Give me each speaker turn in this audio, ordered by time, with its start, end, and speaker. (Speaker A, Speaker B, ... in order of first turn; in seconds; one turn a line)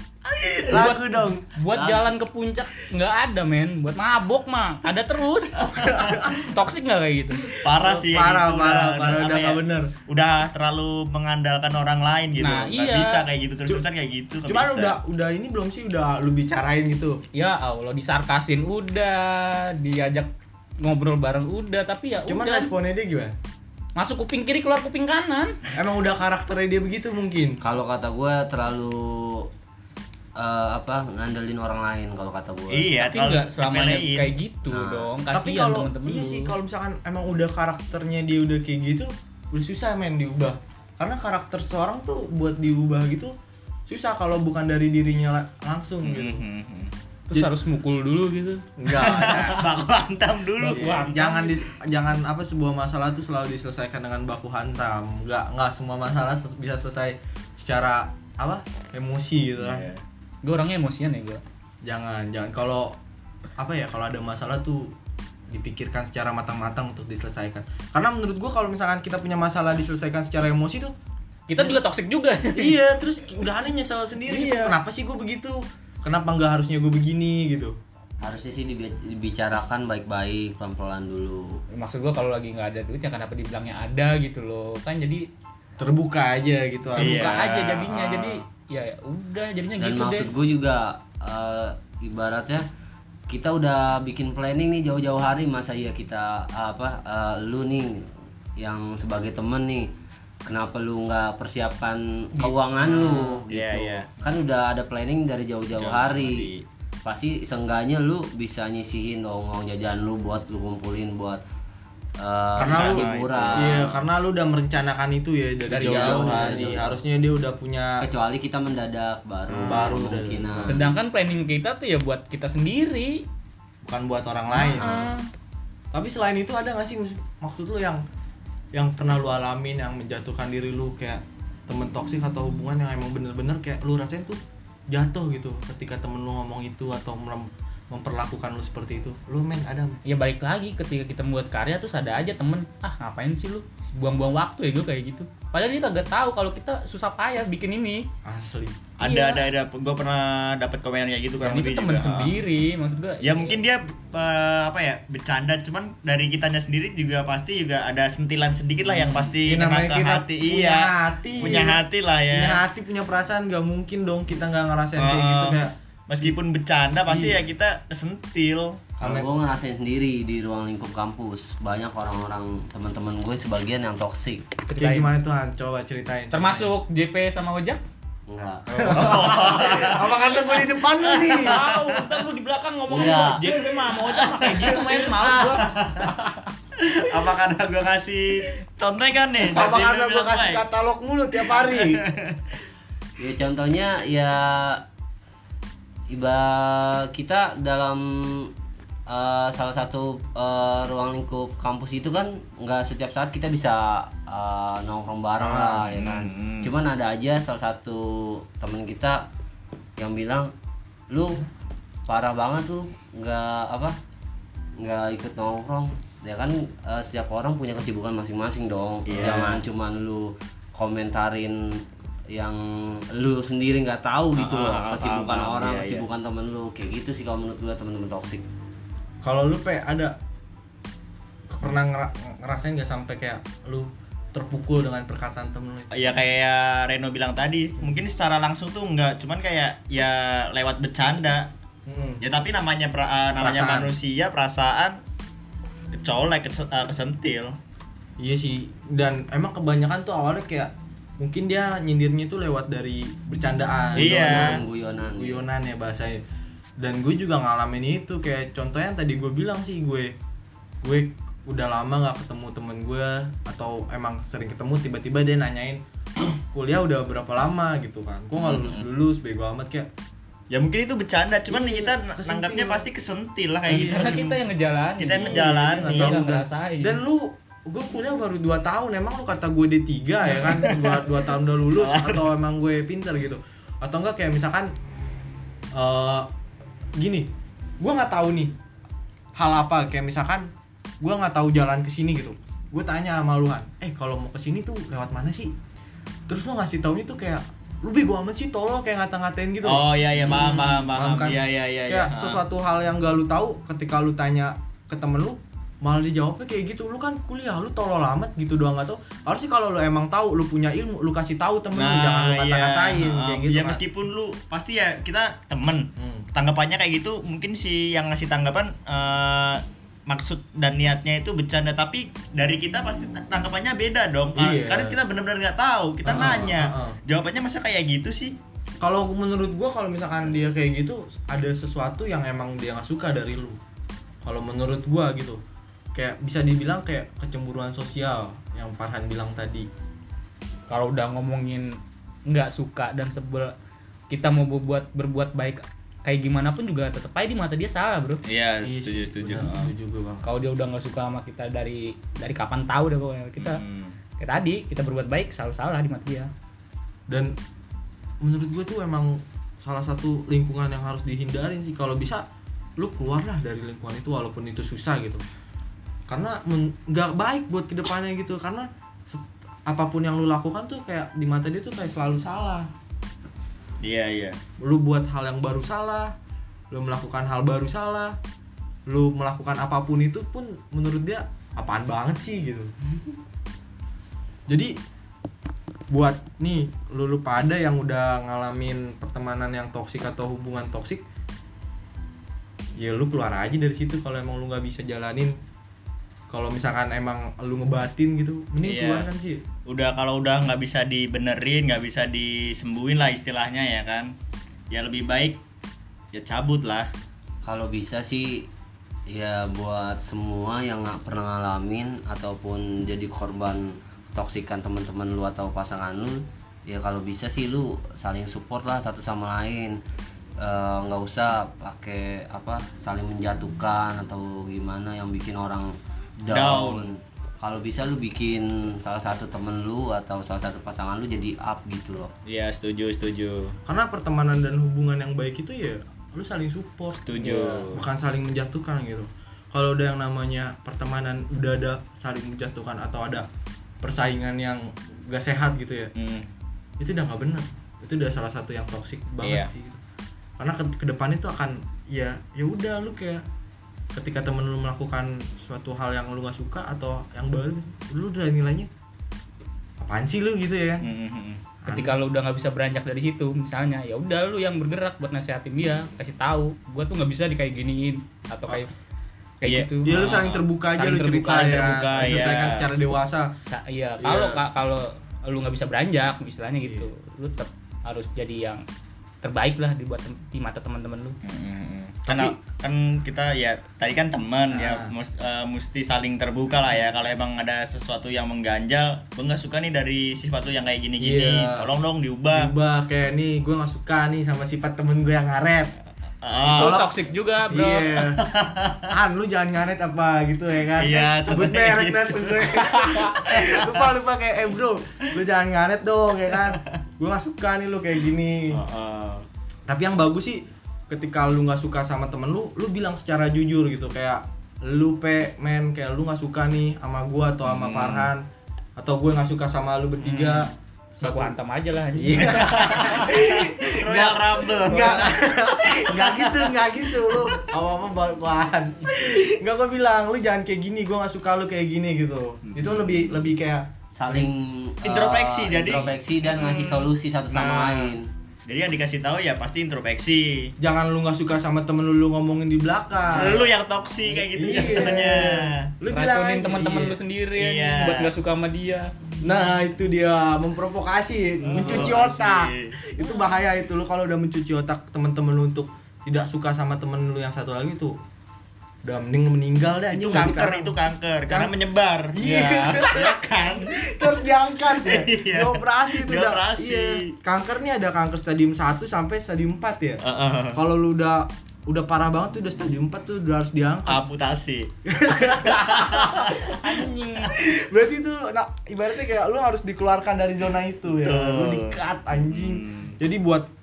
Speaker A: 0.4-0.7
Speaker B: 0.7-1.4
Speaker C: 0.7-5.7
Speaker D: 1.7-2.1
Speaker A: 5.8-6.3
Speaker B: 5.8-6.3
Speaker C: 6.3-7.5
Speaker A: 7.6-15.0
Speaker B: 7.7-9.9
Speaker C: 12.4-13.2
Speaker B: 14.5-17.2
Speaker C: 17.3-22.7
Speaker B: 22.3-23.4
Speaker C: 24.0-25.6
Speaker B: 25.7-27.6
Speaker D: 27.6-29.5
Speaker D: 30.4-32.9
Speaker A: 32.7-34.4
Speaker C: 33.0-36.5
Speaker D: 34.7-35.1
Speaker B: 35.3-43.3
Speaker B: 43.9-46.4
Speaker A: 46.0-46.9
Speaker C: 47.3-49.6
Speaker B: 48.8-49.7
Speaker A: 48.9-51.0
Speaker C: 50.6-51.6
Speaker B: 50.7-59.9
Speaker A: 59.6-60.0
Speaker C: 60.4-61.4
Speaker B: 61.8-63.0
Speaker B: 63.6-64.9
Speaker B: 65.5-70.9
Speaker C: 71.5-72.8
Speaker B: 72.5-77.8
Speaker C: 74.3-74.8
Speaker D: 78.2-81.6
Speaker C: 81.7-85.3
Speaker B: 85.8-87.5
Speaker C: 87.0-90.3
Speaker A: 87.0-88.4
Speaker D: 89.8-92.6
Speaker D: 93.3-99.9
Speaker D: 100.5-106.5
Speaker C: 102.4-103.3
Speaker A: 103.5-104.1
Speaker A: 105.8-106.7
Speaker D: 107.0-111.4
Speaker D: 112.2-114.0
Speaker B: 112.6-118.0
Speaker A: 112.6-113.8
Speaker D: 115.7-117.0
Speaker C: 115.7-116.6
Speaker D: 118.0-120.9
Speaker A: 119.5-119.8
Speaker B: 119.6-120.9
Speaker C: 120.6-123.2
Speaker B: 123.8-125.1
Speaker C: 124.5-125.3
Speaker B: 125.9-128.0
Speaker B: 128.7-140.0
Speaker C: 140.1-148.1
Speaker B: 148.2-148.9
Speaker A: 149.0-152.3
Speaker C: 149.0-149.5
Speaker C: 151.4-153.6
Speaker A: 153.2-162.6
Speaker B: 159.0-165.8
Speaker A: 165.0-168.8
Speaker B: 167.1-167.4
Speaker D: 169.0-174.5
Speaker B: 169.0-169.3
Speaker C: 174.7-175.1
Speaker B: 174.7-176.7
Speaker C: 176.3-177.8
Speaker D: 178.3-179.0
Speaker C: 178.7-180.2
Speaker B: 178.7-181.6
Speaker A: 178.9-180.5
Speaker A: 181.0-182.2
Speaker C: 181.1-186.5
Speaker D: 182.9-183.4
Speaker A: 184.1-186.1
Speaker A: 186.8-190.6
Speaker B: 189.4-192.0
Speaker A: 191.5-192.5
Speaker D: 193.2-194.8
Speaker D: 196.1-198.5
Speaker D: 199.1-209.3
Speaker B: 205.4-205.8
Speaker A: 205.9-206.7
Speaker D: 210.0-210.5
Speaker D: 211.1-211.4
Speaker D: 212.1-214.0
Speaker D: 214.8-228.5
Speaker A: 219.1-219.6
Speaker A: 224.4-226.0
Speaker B: 229.2-230.2
Speaker B: 231.5-235.9
Speaker A: 235.9-241.5
Speaker B: 241.9-242.2
Speaker A: 242.2-245.0
Speaker B: 243.4-243.9
Speaker A: 245.9-247.6
Speaker B: 248.2-256.2
Speaker A: 254.0-254.6
Speaker D: 254.0-255.4
Speaker B: 256.8-260.1
Speaker B: 260.8-269.9
Speaker A: 268.4-268.9
Speaker A: 270.5-274.4
Speaker B: 271.5-272.9
Speaker B: 273.7-274.3
Speaker C: 273.7-277.0
Speaker A: 275.0-276.2
Speaker B: 275.1-284.7
Speaker A: 280.6-281.0
Speaker A: 281.8-282.2
Speaker B: 285.7-286.3
Speaker B: 287.0-288.6
Speaker B: 289.4-290.5
Speaker B: 291.0-295.5
Speaker B: 296.3-313.8
Speaker A: 299.6-302.4
Speaker A: 311.7-328.4
Speaker B: 316.0-316.3
Speaker B: 324.4-325.0
Speaker B: 326.1-327.0
Speaker B: 328.8-333.6
Speaker B: 334.2-335.4
Speaker B: 335.9-339.7
Speaker C: 340.7-343.5
Speaker C: 344.1-348.2
Speaker A: 348.3-349.7
Speaker B: 348.6-350.2
Speaker C: 350.2-353.6
Speaker A: 353.4-354.0
Speaker C: 354.2-356.3
Speaker B: 357.1-357.4
Speaker B: 358.2-362.2
Speaker B: 362.8-365.2
Speaker B: 366.1-372.7
Speaker A: 373.8-374.4
Speaker B: 374.6-376.1
Speaker B: 376.7-378.2
Speaker B: 378.9-382.7
Speaker B: 384.5-384.7
Speaker B: 385.9-391.0
Speaker B: 392.8-395.4
Speaker B: 396.3-399.4
Speaker A: 398.6-399.1
Speaker A: 399.7-404.1
Speaker A: 404.7-405.4
Speaker A: 406.1-406.9
Speaker D: 407.4-408.5
Speaker D: 409.1-419.8
Speaker D: 420.4-432.1
Speaker A: 426.3-426.9
Speaker A: 432.3-433.6
Speaker B: 433.7-437.2
Speaker A: 437.0-437.9
Speaker B: 437.7-443.3
Speaker B: 443.8-445.9
Speaker A: 446.0-446.3
Speaker B: 446.8-449.8
Speaker A: 449.2-449.5
Speaker B: 450.4-453.2
Speaker B: 453.9-458.7
Speaker B: 459.8-460.9
Speaker A: 460.8-461.4
Speaker B: 461.6-462.0
Speaker C: 461.7-468.7
Speaker C: 469.4-470.2
Speaker A: 469.4-470.4
Speaker B: 469.9-473.3
Speaker C: 470.8-471.8
Speaker A: 471.6-472.7
Speaker C: 473.5-478.6
Speaker B: 474.0-474.4
Speaker B: 476.6-476.9
Speaker C: 479.2-481.2
Speaker A: 481.2-492.5
Speaker B: 482.1-482.4
Speaker B: 484.5-484.9
Speaker B: 491.0-491.7
Speaker B: 492.3-495.7
Speaker A: 496.2-496.9
Speaker C: 496.5-498.0
Speaker B: 496.5-496.9
Speaker B: 497.5-498.2
Speaker A: 498.2-498.9
Speaker B: 498.9-508.6
Speaker A: 500.8-503.9
Speaker C: 502.8-503.1
Speaker A: 506.3-506.6
Speaker A: 508.5-509.3
Speaker B: 509.7-518.2
Speaker A: 517.5-518.1
Speaker B: 518.8-521.3
Speaker A: 520.0-520.5
Speaker C: 521.0-523.1
Speaker B: 522.0-534.3
Speaker A: 522.2-527.4
Speaker C: 524.7-525.1
Speaker A: 532.5-533.2
Speaker D: 533.9-538.1
Speaker A: 534.8-538.0
Speaker A: 538.5-540.5
Speaker B: 540.6-543.5
Speaker A: 543.1-545.7
Speaker B: 544.4-547.0
Speaker C: 544.4-544.9
Speaker C: 545.9-548.9
Speaker A: 547.4-548.1
Speaker B: 549.2-558.0
Speaker A: 551.5-552.8
Speaker B: 558.9-560.8
Speaker A: 559.9-564.1
Speaker B: 561.3-561.5
Speaker B: 562.1-570.0
Speaker C: 562.2-562.8
Speaker A: 564.8-567.1
Speaker A: 570.0-570.6
Speaker B: 570.5-574.1
Speaker A: 573.9-574.7
Speaker B: 574.9-583.5
Speaker C: 575.6-577.4
Speaker A: 575.9-576.2
Speaker A: 581.0-583.0